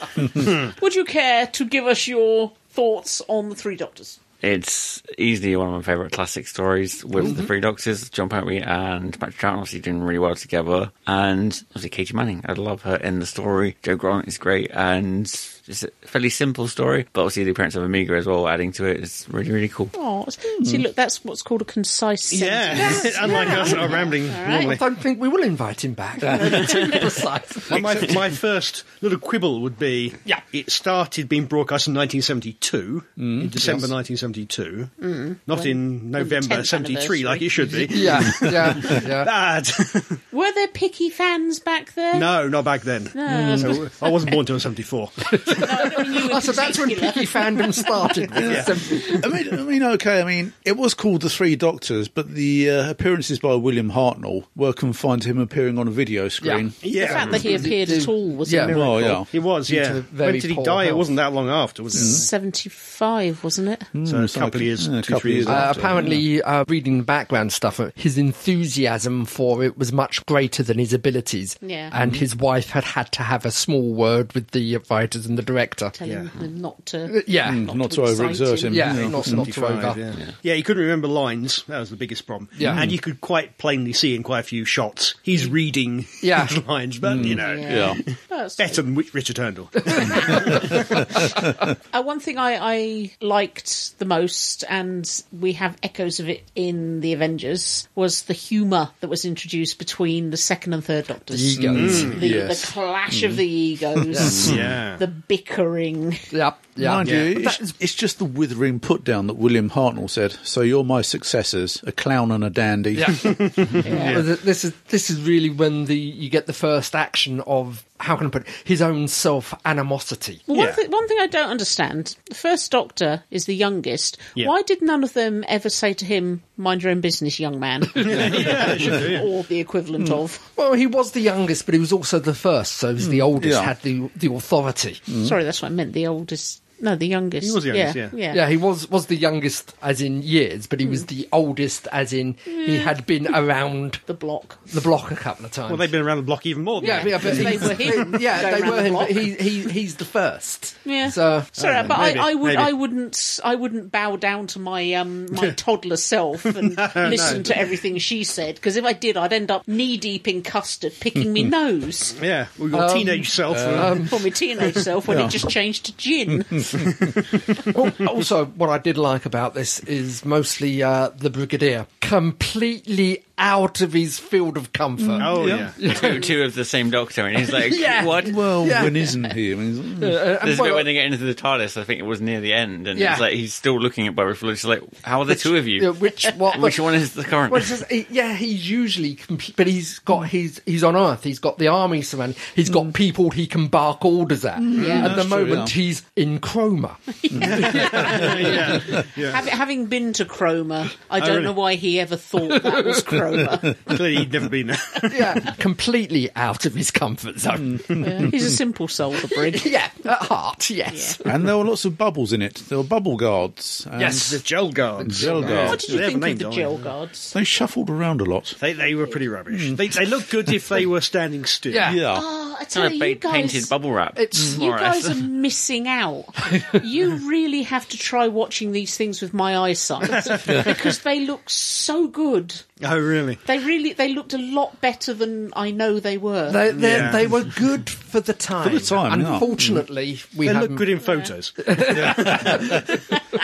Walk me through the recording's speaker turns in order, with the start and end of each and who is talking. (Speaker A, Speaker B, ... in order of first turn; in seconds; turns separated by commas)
Speaker A: 0.3-4.2, Speaker B: 4.4-19.9, Speaker C: 7.2-7.5, Speaker A: 19.9-24.8, Speaker D: 20.6-20.9, Speaker E: 22.3-24.8, Speaker C: 22.8-28.1, Speaker D: 26.2-26.8, Speaker E: 27.7-40.2, Speaker D: 27.7-28.2, Speaker D: 33.2-33.9, Speaker A: 35.0-37.5, Speaker C: 37.6-39.3, Speaker A: 40.3-42.4, Speaker E: 42.1-45.9, Speaker A: 43.1-44.3, Speaker D: 43.3-43.6, Speaker C: 45.4-49.3, Speaker A: 45.5-48.2, Speaker D: 48.4-56.8, Speaker E: 48.5-48.7, Speaker C: 56.4-58.8, Speaker E: 56.8-57.7, Speaker A: 56.9-58.9, Speaker D: 58.7-59.3, Speaker E: 58.7-62.3, Speaker C: 59.4-61.2, Speaker A: 61.9-63.9, Speaker D: 62.0-62.2, Speaker D: 63.9-66.2, Speaker E: 64.0-65.9, Speaker C: 65.5-76.0, Speaker A: 71.6-71.9, Speaker D: 72.0-72.2, Speaker A: 75.9-79.0, Speaker E: 76.0-76.3, Speaker C: 77.1-77.7, Speaker D: 77.4-79.8, Speaker C: 78.7-80.0, Speaker E: 79.1-91.1, Speaker C: 82.6-82.9, Speaker D: 82.6-83.0, Speaker C: 86.2-86.6, Speaker D: 87.0-88.0, Speaker A: 87.2-88.9, Speaker A: 90.3-90.5, Speaker A: 91.9-106.3, Speaker C: 101.3-102.2, Speaker D: 101.6-103.4, Speaker E: 101.8-102.2, Speaker D: 104.0-104.7, Speaker C: 104.1-104.5, Speaker E: 104.4-105.0, Speaker C: 106.3-107.8, Speaker D: 106.8-113.3, Speaker E: 107.0-107.3, Speaker C: 112.9-120.5, Speaker E: 113.2-114.3, Speaker A: 113.8-114.2, Speaker A: 120.5-130.4, Speaker E: 120.5-120.8, Speaker E: 128.0-129.3, Speaker C: 130.6-135.1, Speaker D: 133.0-133.7, Speaker D: 135.1-135.4, Speaker A: 135.2-138.4, Speaker E: 137.4-138.2, Speaker C: 138.3-144.0, Speaker A: 142.5-143.0, Speaker A: 144.1-144.7, Speaker C: 144.7-145.9, Speaker E: 145.7-147.8, Speaker C: 146.8-152.1, Speaker A: 146.8-149.4, Speaker A: 150.8-162.2, Speaker E: 151.6-152.7, Speaker E: 156.7-157.6, Speaker C: 157.1-157.4, Speaker E: 162.2-164.0, Speaker C: 162.7-164.2, Speaker D: 163.5-164.0, Speaker A: 164.0-166.8, Speaker D: 165.1-165.4, Speaker D: 166.6-166.8, Speaker C: 167.7-176.2, Speaker D: 175.1-175.7, Speaker E: 175.2-175.8, Speaker B: 175.8-178.4, Speaker C: 177.4-179.2, Speaker D: 178.2-180.2, Speaker C: 180.0-180.9, Speaker B: 180.4-187.8, Speaker C: 182.9-183.2, Speaker C: 185.3-186.9, Speaker C: 187.5-198.8, Speaker D: 194.6-195.7, Speaker A: 194.8-195.1, Speaker E: 194.8-195.1, Speaker A: 197.3-203.8, Speaker E: 197.4-199.5, Speaker E: 201.2-201.6, Speaker C: 202.5-202.9, Speaker E: 203.9-205.5, Speaker C: 205.1-208.3, Speaker D: 207.6-208.4, Speaker A: 208.0-209.8, Speaker C: 209.3-211.4, Speaker A: 210.9-211.2, Speaker D: 211.2-214.4, Speaker C: 214.0-214.4, Speaker E: 214.2-216.9, Speaker D: 215.0-216.0, Speaker C: 215.2-215.5, Speaker A: 215.5-217.3, Speaker D: 217.3-218.6, Speaker E: 218.6-221.9, Speaker D: 219.5-219.8, Speaker C: 221.7-222.0, Speaker D: 221.8-222.3, Speaker A: 222.0-223.7, Speaker B: 222.7-225.2, Speaker C: 224.2-224.6, Speaker A: 224.4-232.7, Speaker E: 230.3-230.6, Speaker E: 232.8-233.4, Speaker A: 233.4-236.8, Speaker C: 236.5-241.0, Speaker E: 236.7-237.5, Speaker D: 238.6-239.8, Speaker E: 240.4-242.8, Speaker A: 241.0-241.3, Speaker C: 241.6-242.9, Speaker D: 242.1-242.8